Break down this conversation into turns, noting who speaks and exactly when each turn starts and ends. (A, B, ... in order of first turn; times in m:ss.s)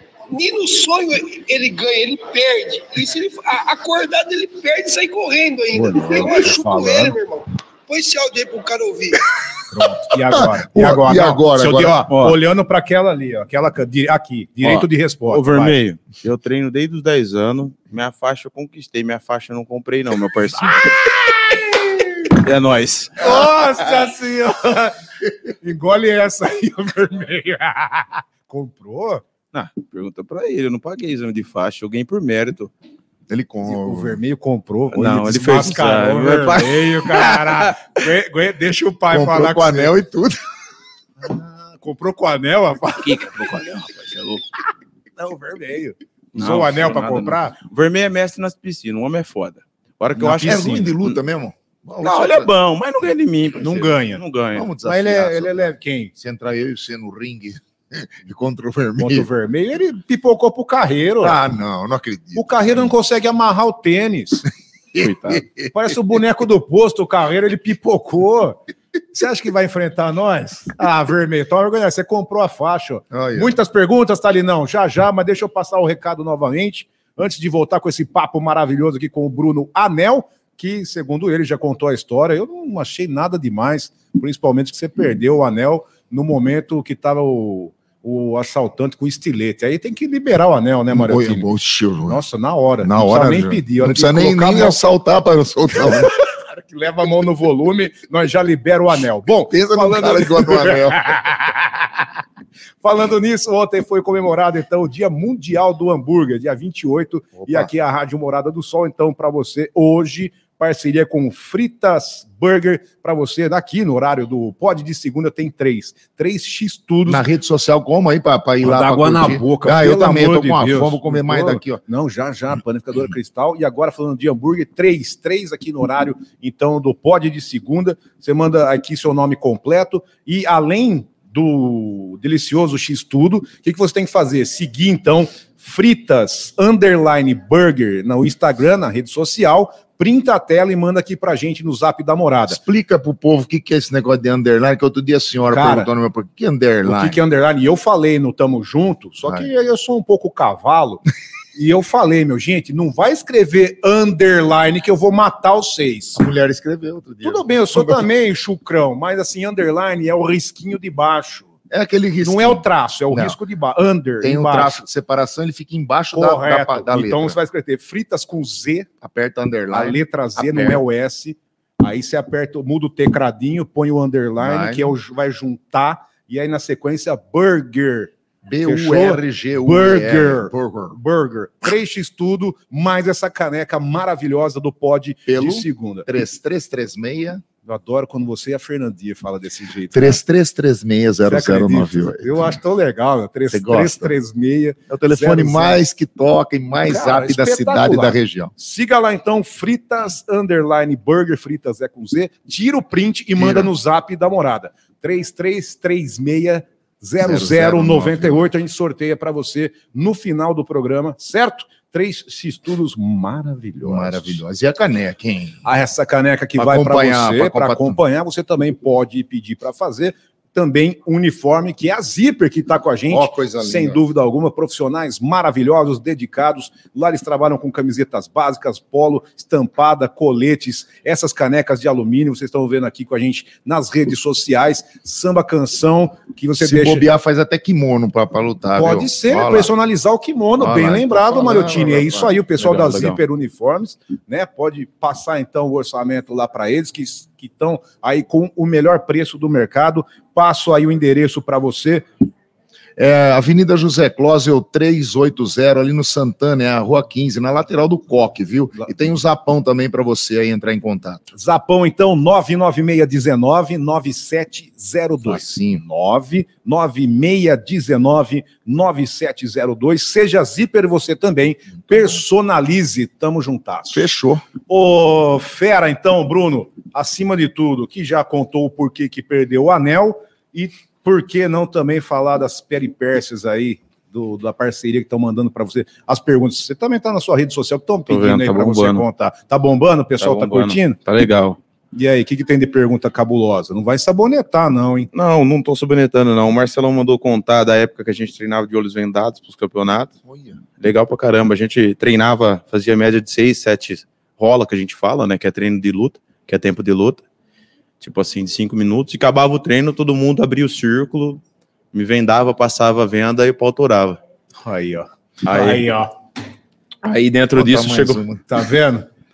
0:00.3-0:09.3 A
0:05.7-0:07.2 B
0:09.7-0:15.8 B
0:10.3-0:12.2 C
0:14.6-0:21.1 D
0:20.6-0:21.7 B
0:22.2-0:23.2 D
0:23.2-0:29.2 B
0:29.5-0:32.7 D
0:33.3-0:34.2 C
0:33.6-0:39.9 B
0:34.9-0:37.9 D
0:39.1-0:40.4 C
0:41.2-0:43.4 B
0:43.0-0:44.4 D
0:45.2-0:47.6 B
0:46.3-0:51.2 D
0:50.2-0:51.0 B
0:50.3-0:52.5 C
0:52.0-0:54.7 D
0:53.6-0:54.2 B
0:54.6-0:59.3 C
0:54.8-0:56.1 B
0:59.0-1:01.4 B
1:01.2-1:02.9 C
1:02.4-1:04.4 B
1:05.0-1:05.6 C
1:05.0-1:05.4 D
1:05.6-1:08.6 B
1:09.1-1:31.5 B
1:13.1-1:13.5 C
1:30.9-1:32.2 C
1:32.1-1:34.8 B
1:32.8-1:36.2 C
1:35.7-1:42.0 B
1:39.5-1:41.3 C
1:42.8-1:57.3 B
1:47.4-1:47.7 C
1:57.1-2:01.8 C
1:58.6-2:22.6 B
2:22.5-2:27.2 C
2:25.5-2:25.9 B
2:26.8-2:31.0 B
2:31.6-2:36.2 B
2:36.2-2:38.1 C
2:37.2-2:41.5 B
2:41.7-2:43.4 C
2:42.2-2:44.8 B
2:44.2-2:47.4 C
2:46.1-2:48.9 B
2:49.0-2:50.8 C
2:49.7-3:06.1 B
2:54.4-2:54.9 C
2:58.4-3:01.0 C
3:05.3-3:07.4 C
3:07.6-3:10.2 B
3:09.9-3:12.5 C
3:11.2-3:15.8 B
3:13.5-3:14.1 C
3:14.9-3:18.5 C
3:16.8-3:34.4 B
3:23.4-3:23.7 C
3:27.2-3:28.4 C
3:33.8-3:35.6 C
3:35.6-3:57.1 B
3:36.6-3:38.0 C
3:43.1-3:44.0 C
3:56.6-3:59.7 C
3:58.8-4:12.1 B
4:00.6-4:02.3 C
4:02.6-4:03.2 D
4:13.0-4:21.3 C
4:21.3-4:34.1 B
4:25.2-4:25.8 C
4:33.9-4:34.4 C
4:34.7-4:51.0 B
4:48.1-4:49.1 D
4:50.2-4:51.6 D
4:51.9-4:55.1 B
4:55.1-5:00.1 D
5:00.3-5:00.6 C
5:00.8-5:07.2 D
5:08.0-5:11.4 D
5:11.9-5:14.2 D
5:14.6-5:16.1 B
5:15.4-5:15.9 D
5:17.0-5:18.2 D
5:17.6-5:18.4 C
5:18.5-5:19.1 B